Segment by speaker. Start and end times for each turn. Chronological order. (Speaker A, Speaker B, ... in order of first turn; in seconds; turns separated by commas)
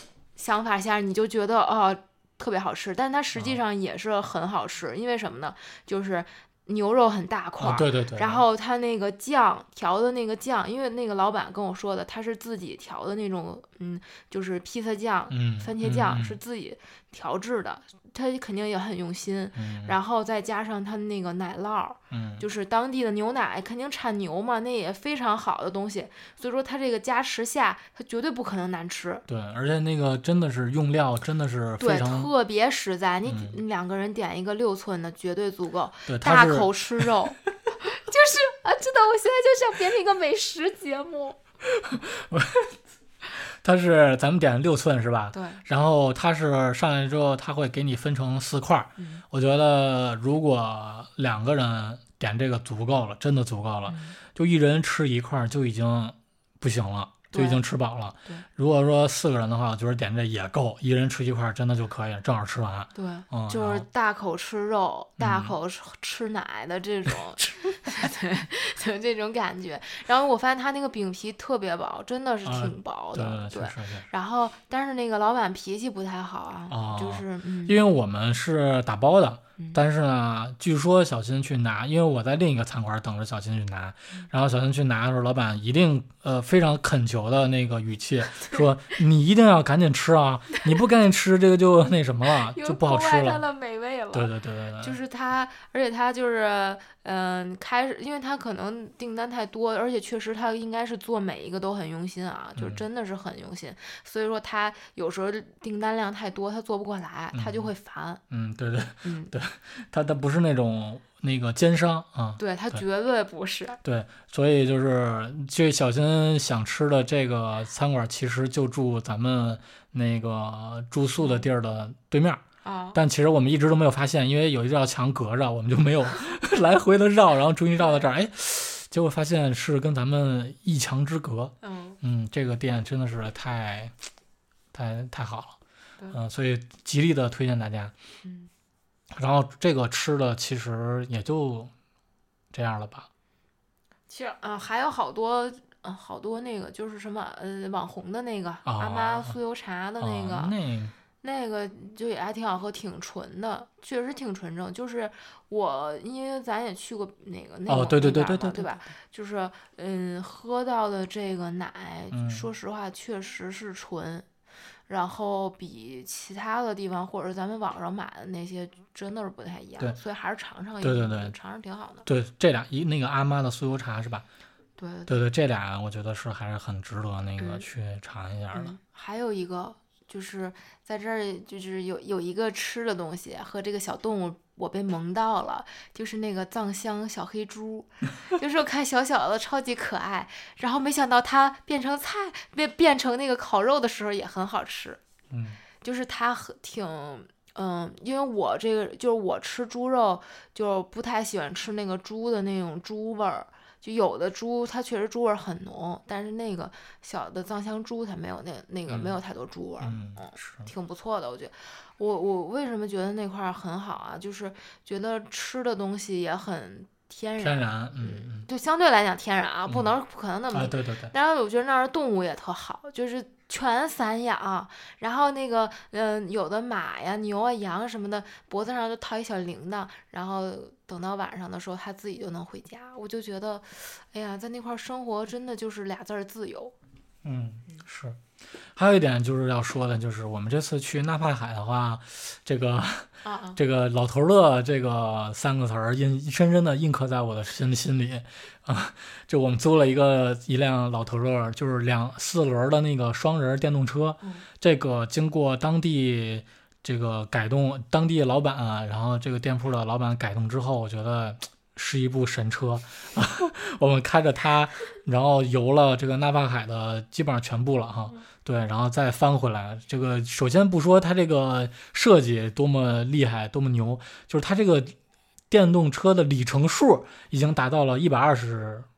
Speaker A: 0.4-29.2, Speaker B: 7.6-8.4, Speaker B: 15.3-16.4, Speaker B: 19.6-20.0, Speaker B: 22.1-22.4, Speaker B: 29.3-32.3, Speaker A: 31.8-41.4, Speaker B: 33.3-33.6, Speaker B: 36.1-37.0, Speaker B: 41.6-42.7, Speaker B: 43.4-63.9, Speaker A: 45.3-45.6, Speaker A: 49.0-49.2, Speaker A: 53.9-54.2, Speaker A: 57.3-57.6, Speaker A: 63.0-77.8, Speaker B: 65.2-65.5, Speaker B: 72.5-74.1, Speaker B: 76.7-93.4, Speaker A: 88.3-88.7, Speaker A: 90.5-90.8, Speaker A: 92.5-108.2, Speaker B: 94.1-95.0, Speaker B: 102.6-102.8, Speaker B: 107.3-107.7, Speaker B: 108.3-112.8, Speaker A: 109.0-109.3, Speaker A: 112.4-113.8, Speaker B: 113.8-122.4, Speaker A: 121.2-121.5, Speaker A: 122.6-123.0, Speaker B: 122.9-133.9, Speaker A: 127.8-128.0, Speaker A: 131.6-132.0, Speaker B: 134.7-135.6, Speaker B: 136.1-137.9, Speaker A: 138.2-138.5, Speaker B: 139.1-141.7, Speaker B: 142.5-143.1, Speaker A: 144.1-150.5, Speaker B: 148.7-149.4, Speaker B: 150.0-150.9, Speaker A: 151.2-164.3, Speaker B: 157.7-158.8, Speaker B: 162.1-162.4, Speaker A: 164.9-172.1, Speaker B: 170.8-171.3, Speaker B: 172.1-174.2, Speaker A: 174.8-175.1, Speaker B: 175.1-178.7, Speaker A: 177.4-177.7, Speaker A: 178.5-195.0, Speaker B: 195.3-195.6, Speaker A: 195.8-236.7, Speaker B: 208.9-209.2, Speaker B: 209.8-210.7, Speaker B: 217.4-218.5, Speaker B: 219.7-219.9, Speaker B: 220.5-221.1, Speaker B: 237.2-238.2, Speaker B: 238.7-274.9, Speaker A: 243.2-243.6, Speaker B: 275.5-278.9